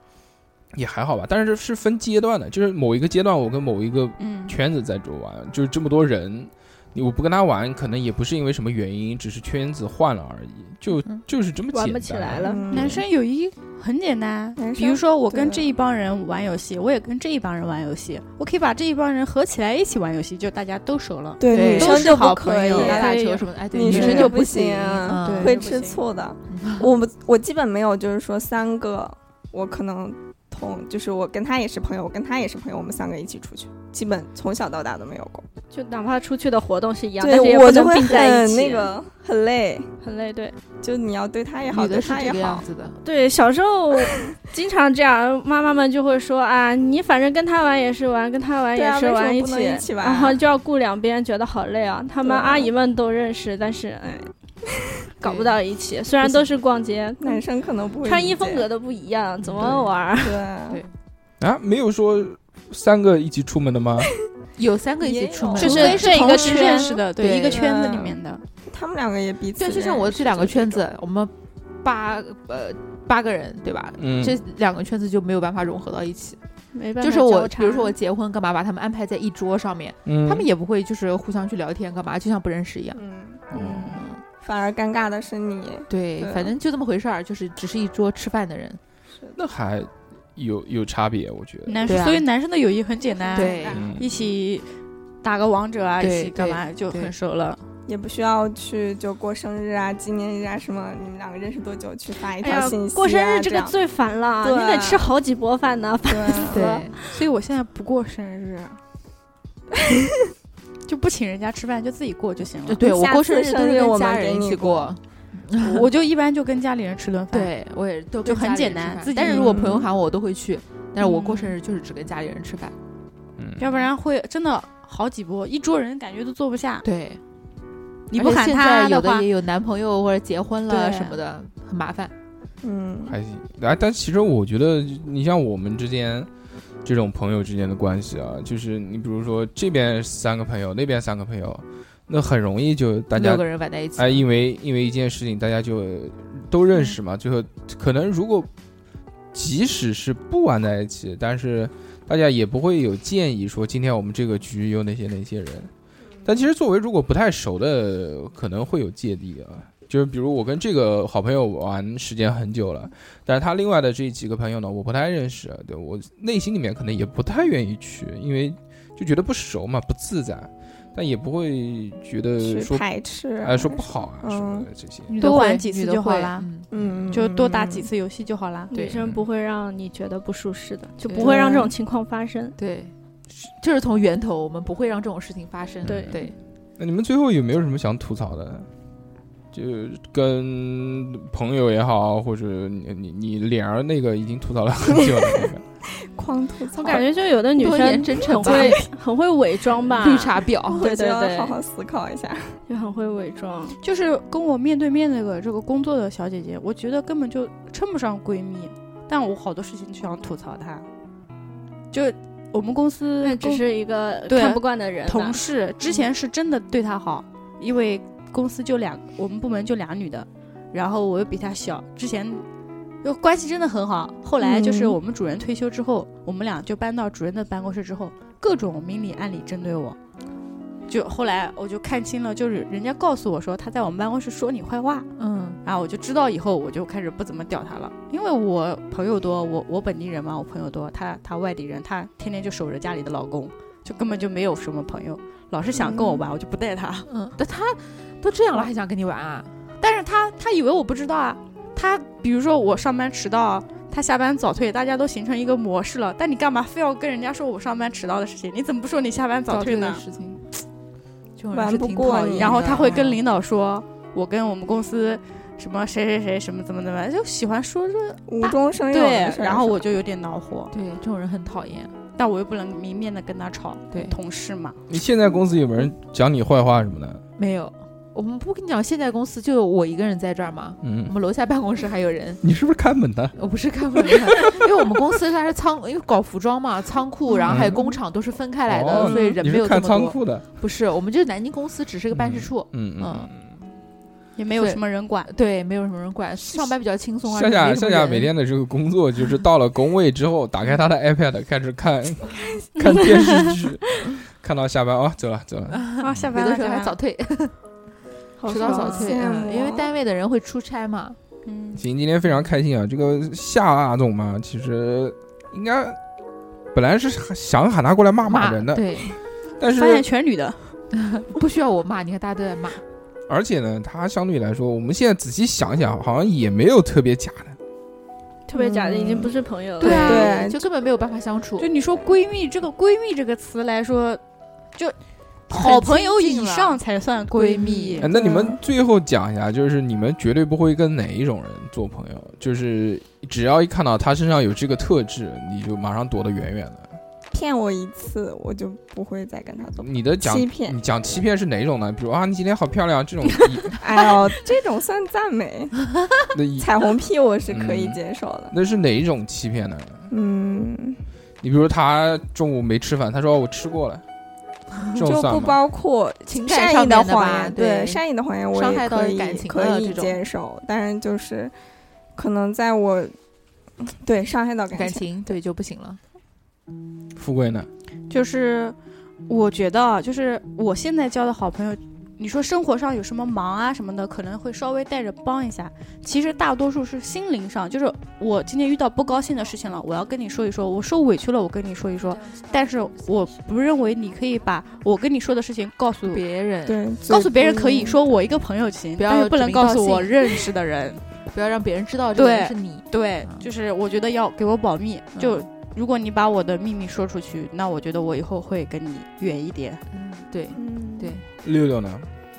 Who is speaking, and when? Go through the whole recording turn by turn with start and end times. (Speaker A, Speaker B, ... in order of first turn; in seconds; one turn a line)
Speaker A: 0.7-12.6
Speaker B: 4.2-4.6
Speaker C: 11.7-12.6
Speaker D: 12.4-13.0
Speaker B: 12.7-23.0
Speaker D: 14.6-15.7
Speaker D: 21.4-23.1
Speaker E: 21.5-25.5
Speaker C: 22.7-24.2
Speaker D: 23.7-35.5
Speaker B: 23.9-24.3
Speaker B: 25.2-25.5
Speaker C: 25.4-26.0
Speaker E: 26.5-26.9
Speaker C: 35.7-38.9
Speaker D: 37.2-39.9
Speaker C: 40.0-40.6
Speaker D: 40.8-42.6
Speaker E: 41.7-43.0
Speaker C: 43.0-54.3
Speaker D: 48.8-50.4
Speaker D: 52.2-52.7
Speaker C: 55.2-57.4
Speaker E: 55.2-55.6
Speaker D: 57.2-58.7
Speaker C: 58.0-60.4
Speaker E: 59.5-59.8
Speaker D: 60.2-60.8
Speaker A: 61.4-64.1
Speaker E: 64.6-67.7
Speaker D: 65.0-66.9
Speaker B: 65.6-68.4
Speaker C: 65.6-67.0
Speaker D: 67.5-68.2
Speaker D: 68.7-70.8
Speaker E: 69.6-76.4
Speaker A: 74.0-74.4
Speaker C: 76.7-78.0
Speaker E: 77.0-83.0
Speaker A: 80.1-80.5
Speaker D: 83.0-83.4
Speaker A: 83.5-84.0
Speaker C: 83.5-84.1
Speaker E: 83.6-84.2
Speaker D: 84.4-86.5
Speaker E: 85.9-88.8
Speaker A: 89.4-91.9
Speaker B: 91.7-94.7
Speaker E: 91.8-92.2
Speaker E: 93.3-93.8
Speaker A: 93.7-94.1
Speaker B: 95.2-97.6
Speaker E: 96.0-97.1
Speaker D: 97.9-103.8
Speaker C: 102.4-106.9
Speaker D: 104.4-105.1
Speaker D: 106.1-106.9
Speaker E: 106.5-106.9
Speaker B: 107.0-108.8
Speaker B: 110.9-112.8
Speaker E: 112.7-115.9
Speaker D: 112.8-115.0
Speaker B: 115.6-117.5
Speaker E: 117.3-122.8
Speaker B: 118.2-119.7
Speaker D: 119.3-119.9
Speaker B: 121.0-121.6
Speaker A: 123.4-123.7
Speaker B: 123.6-126.9
Speaker E: 126.8-127.2
Speaker B: 128.1-129.3
Speaker E: 128.1-132.1
Speaker B: 130.7-131.2
Speaker D: 132.6-133.2
Speaker A: 133.1-136.3
Speaker A: 136.8-143.4
Speaker E: 143.1-144.2
Speaker A: 144.0-148.5
Speaker A: 149.3-155.7
Speaker A: 156.2-172.8
Speaker D: 172.4-174.7
Speaker A: 173.4-175.2
Speaker B: 175.1-176.5
Speaker E: 175.2-176.7
Speaker D: 176.7-177.9
Speaker B: 177.1-178.7
Speaker E: 178.7-179.0
Speaker C: 178.7-182.6
Speaker E: 181.1-181.7
Speaker D: 181.2-181.7
Speaker E: 182.6-186.3
Speaker A: 185.8-186.2
Speaker C: 185.9-186.2
Speaker A: 186.8-188.7
Speaker A: 189.5-195.6
Speaker D: 195.0-197.0
Speaker E: 196.8-197.0
Speaker C: 196.8-201.6
Speaker E: 197.6-198.8
Speaker D: 198.4-198.8
Speaker E: 200.0-200.8
Speaker D: 200.7-202.6
Speaker C: 202.7-203.8
Speaker B: 203.8-210.9
Speaker B: 211.9-213.6
Speaker C: 213.2-215.4
Speaker B: 214.3-222.4
Speaker B: 223.0-230.0
Speaker D: 224.4-224.9
Speaker B: 230.9-235.1
Speaker E: 235.2-235.6
Speaker B: 235.6-247.1
Speaker D: 245.8-246.2
Speaker E: 247.1-249.5
Speaker B: 249.8-260.0
Speaker E: 259.5-260.4
Speaker E: 261.4-263.1
Speaker D: 261.5-263.1
Speaker B: 262.4-270.7
Speaker D: 268.3-270.0
Speaker E: 270.7-271.9
Speaker B: 272.2-274.8
Speaker A: 274.9-277.2
Speaker E: 277.4-282.4
Speaker A: 280.8-281.1
Speaker A: 282.4-283.3
Speaker E: 283.4-293.3
Speaker A: 287.4-287.9
Speaker A: 288.7-290.5
Speaker A: 292.1-293.5
Speaker B: 294.4-295.3
Speaker E: 294.6-298.3
Speaker A: 297.3-306.2
Speaker E: 305.7-307.6
Speaker B: 306.0-307.0
Speaker C: 308.4-309.1
Speaker E: 308.5-311.2
Speaker D: 308.5-309.9
Speaker B: 311.4-311.8
Speaker A: 311.8-316.0
Speaker A: 316.7-319.0
Speaker E: 318.2-319.1
Speaker A: 319.6-320.1
Speaker B: 319.7-320.8
Speaker E: 320.9-322.8
Speaker A: 323.3-327.6
Speaker C: 328.5-330.1
Speaker D: 328.5-329.3
Speaker B: 329.8-330.4
Speaker E: 329.8-331.7
Speaker D: 330.1-330.6
Speaker B: 331.6-334.2
Speaker E: 335.5-338.1
Speaker B: 335.5-338.1
Speaker A: 338.0-346.9
Speaker D: 338.1-338.6
Speaker D: 347.3-350.8
Speaker A: 349.8-353.8
Speaker D: 353.8-355.8
Speaker A: 356.3-356.7
Speaker D: 356.6-358.5
Speaker A: 357.5-358.0
Speaker A: 358.5-360.1
Speaker D: 360.1-361.0
Speaker A: 361.4-364.0
Speaker A: 364.9-365.6
Speaker D: 365.0-371.5
Speaker E: 366.3-370.2
Speaker D: 372.2-373.1
Speaker D: 373.8-375.4
Speaker E: 374.7-376.0
Speaker A: 377.2-377.7
Speaker B: 378.1-378.8
Speaker B: 379.3-396.3
Speaker E: 396.0-396.8
Speaker D: 396.6-398.0
Speaker B: 397.1-401.0
Speaker E: 399.0-400.4
Speaker E: 401.3-403.4
Speaker B: 402.1-409.8
Speaker E: 405.2-405.5
Speaker E: 409.9-411.2
Speaker D: 410.6-411.1
Speaker A: 411.4-412.1